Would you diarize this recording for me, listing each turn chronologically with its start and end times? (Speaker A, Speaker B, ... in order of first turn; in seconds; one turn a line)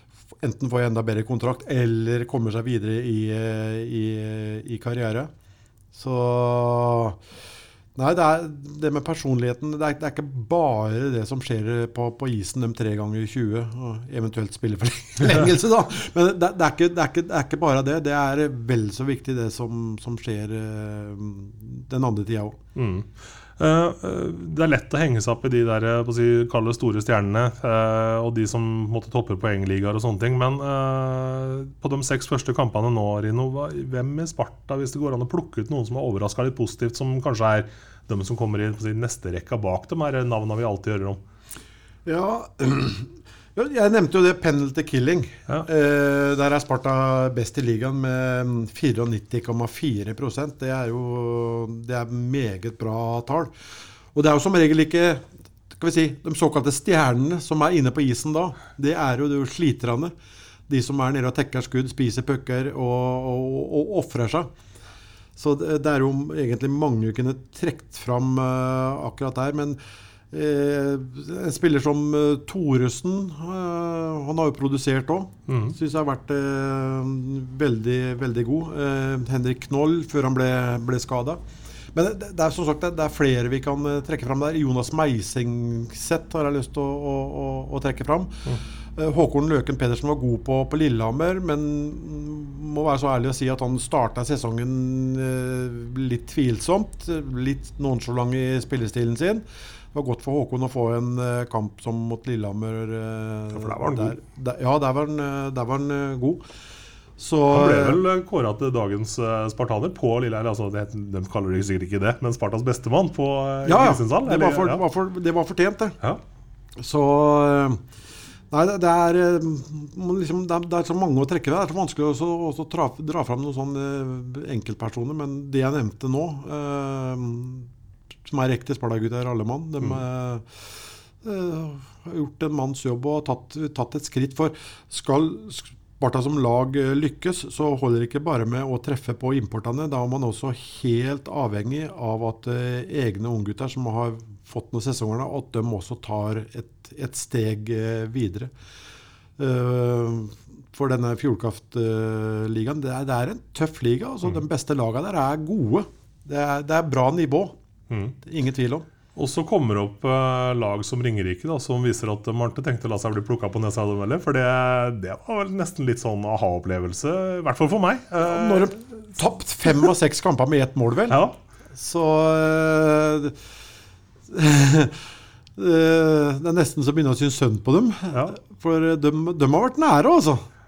Speaker A: 0.4-5.3
Speaker A: 5.9-7.2
Speaker A: 8.0-22.6
Speaker B: 22.7-41.2
Speaker A: 42.0-53.5
Speaker A: 54.1-60.1
Speaker A: 60.7-64.5
Speaker A: 65.3-69.8
Speaker A: 70.3-81.4
Speaker B: 75.5-75.7
Speaker A: 81.9-106.4
Speaker B: 103.5-104.2
Speaker A: 107.2-108.0
Speaker B: 107.5-114.8
Speaker A: 113.6-116.0
Speaker A: 116.8-117.8
Speaker A: 118.5-127.7
Speaker A: 128.2-148.5
Speaker A: 149.4-157.5
Speaker B: 157.9-158.1
Speaker A: 158.2-158.8
Speaker B: 159.2-168.7
Speaker A: 168.2-171.2
Speaker B: 171.1-171.4
Speaker A: 171.7-173.3
Speaker A: 174.3-175.0
Speaker A: 175.6-180.4